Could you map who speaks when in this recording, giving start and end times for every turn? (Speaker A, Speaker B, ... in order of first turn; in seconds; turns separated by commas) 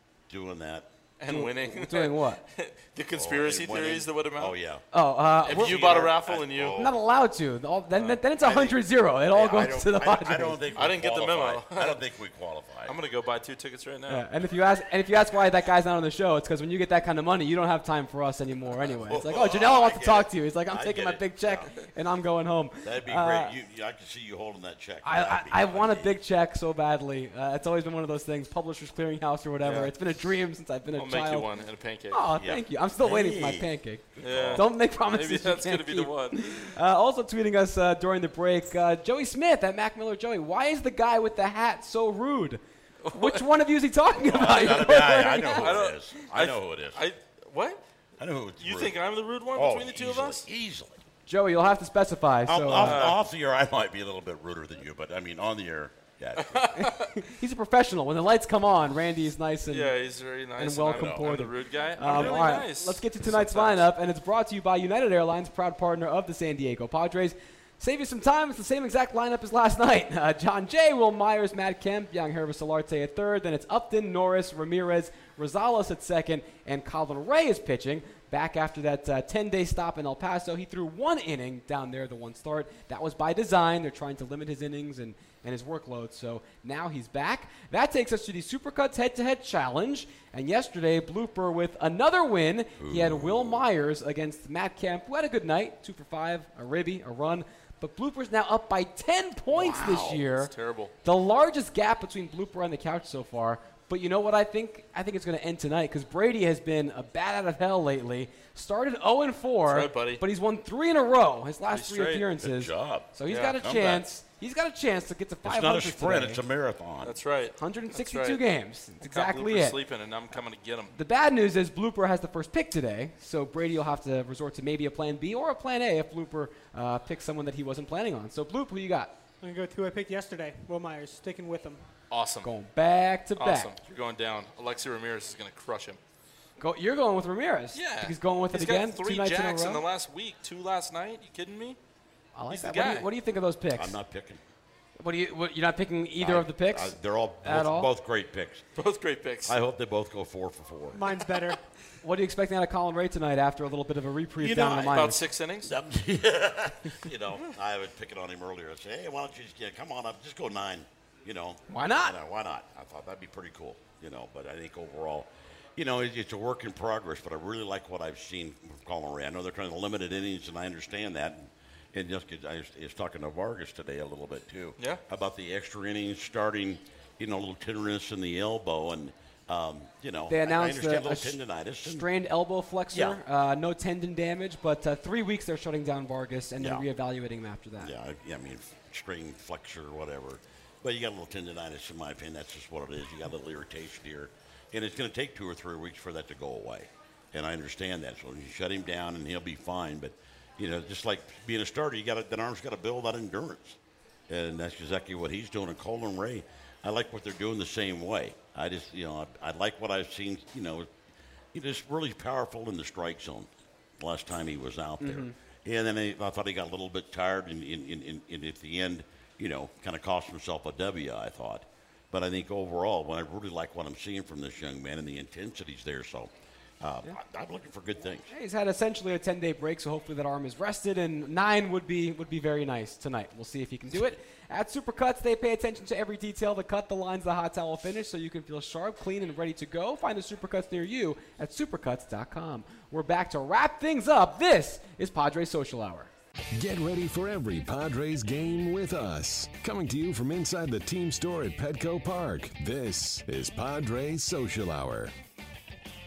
Speaker A: 0.3-0.9, Speaker B: 1.2-4.5, Speaker C: 1.3-2.4, Speaker A: 3.1-4.8, Speaker C: 4.9-6.0, Speaker B: 5.5-6.8, Speaker A: 5.5-7.0, Speaker C: 6.8-10.6, Speaker B: 8.0-8.2, Speaker A: 8.4-13.0, Speaker B: 10.8-12.0, Speaker B: 12.8-14.3, Speaker C: 14.1-23.5, Speaker A: 19.1-21.7, Speaker A: 22.8-26.2, Speaker C: 25.0-31.5, Speaker B: 29.6-29.9, Speaker B: 31.0-32.3, Speaker C: 32.1-42.6, Speaker A: 32.4-34.6, Speaker B: 34.2-36.8, Speaker B: 43.0-43.4, Speaker C: 43.1-45.8, Speaker A: 44.2-47.1, Speaker B: 44.5-47.8, Speaker A: 48.2-49.0, Speaker B: 48.6-50.4, Speaker A: 49.5-51.0, Speaker C: 51.3-53.1, Speaker A: 52.5-56.9, Speaker B: 52.8-53.2, Speaker B: 56.4-57.1, Speaker C: 56.8-60.0, Speaker B: 59.7-63.9, Speaker C: 60.6-100.5, Speaker A: 60.9-61.4, Speaker A: 62.0-62.6, Speaker A: 92.8-93.7, Speaker A: 99.5-100.2, Speaker B: 100.2-100.9, Speaker C: 101.0-116.4, Speaker B: 109.7-110.2, Speaker B: 111.7-112.2, Speaker A: 112.4-114.0, Speaker B: 113.3-113.6, Speaker A: 115.4-117.2, Speaker B: 117.0-118.4, Speaker C: 117.6-119.8, Speaker B: 119.0-120.9, Speaker C: 120.9-129.2, Speaker D: 129.4-131.9, Speaker B: 132.1-132.5, Speaker C: 132.4-133.7, Speaker B: 133.4-136.0, Speaker C: 136.6-139.8, Speaker B: 137.7-141.8, Speaker C: 142.4-144.0, Speaker B: 142.5-143.1, Speaker A: 143.8-144.4, Speaker C: 145.0-147.9, Speaker A: 146.2-148.6, Speaker B: 148.8-149.6, Speaker A: 149.5-151.0, Speaker D: 150.9-151.6, Speaker C: 152.0-155.2, Speaker A: 154.4-155.1, Speaker B: 154.7-155.7, Speaker A: 155.6-182.1, Speaker C: 161.7-162.2, Speaker C: 180.3-187.9, Speaker A: 182.9-183.2, Speaker A: 186.6-186.8, Speaker A: 187.8-210.9, Speaker A: 211.5-226.3, Speaker C: 215.0-215.3, Speaker A: 226.8-228.3, Speaker C: 228.3-246.1, Speaker E: 246.6-255.1